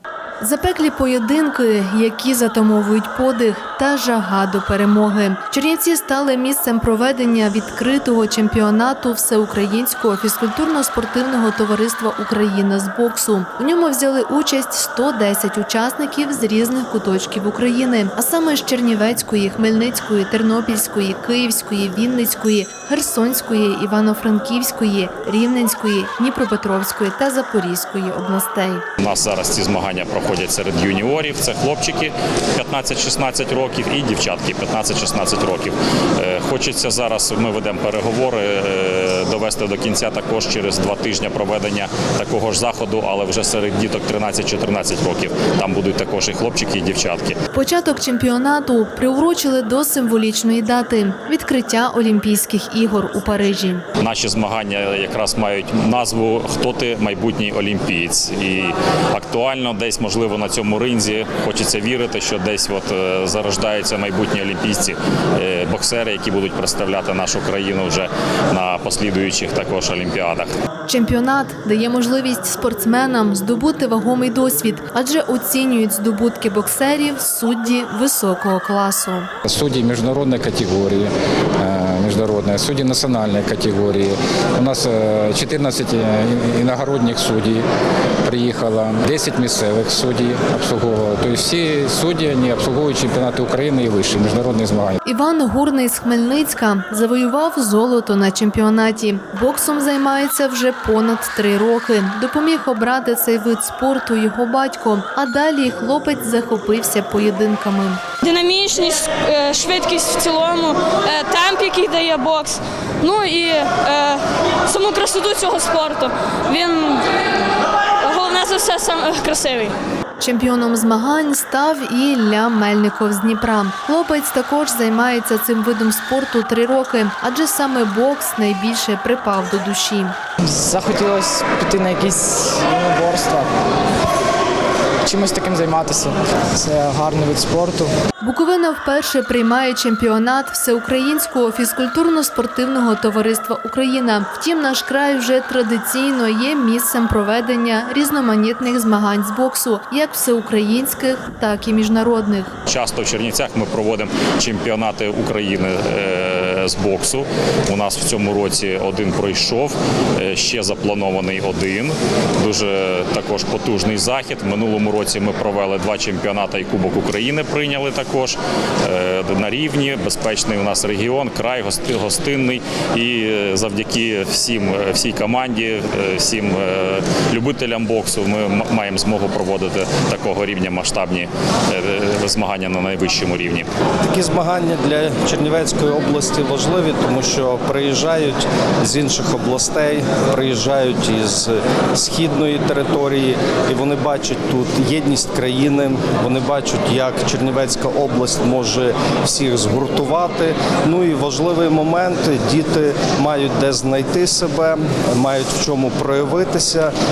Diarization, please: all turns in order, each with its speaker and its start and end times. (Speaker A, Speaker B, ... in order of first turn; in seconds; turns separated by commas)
Speaker A: 0.4-28.8, Speaker B: 29.0-47.4, Speaker A: 47.5-53.8, Speaker B: 54.0-70.5, Speaker A: 70.9-79.3, Speaker C: 79.4-87.6, Speaker C: 88.2-95.0, Speaker A: 95.0-108.0, Speaker D: 108.2-117.1, Speaker D: 118.0-119.8, Speaker A: 120.2-130.2, Speaker E: 130.4-133.5, Speaker E: 135.0-137.9, Speaker A: 138.2-152.5, Speaker B: 152.7-183.7, Speaker F: 184.0-206.9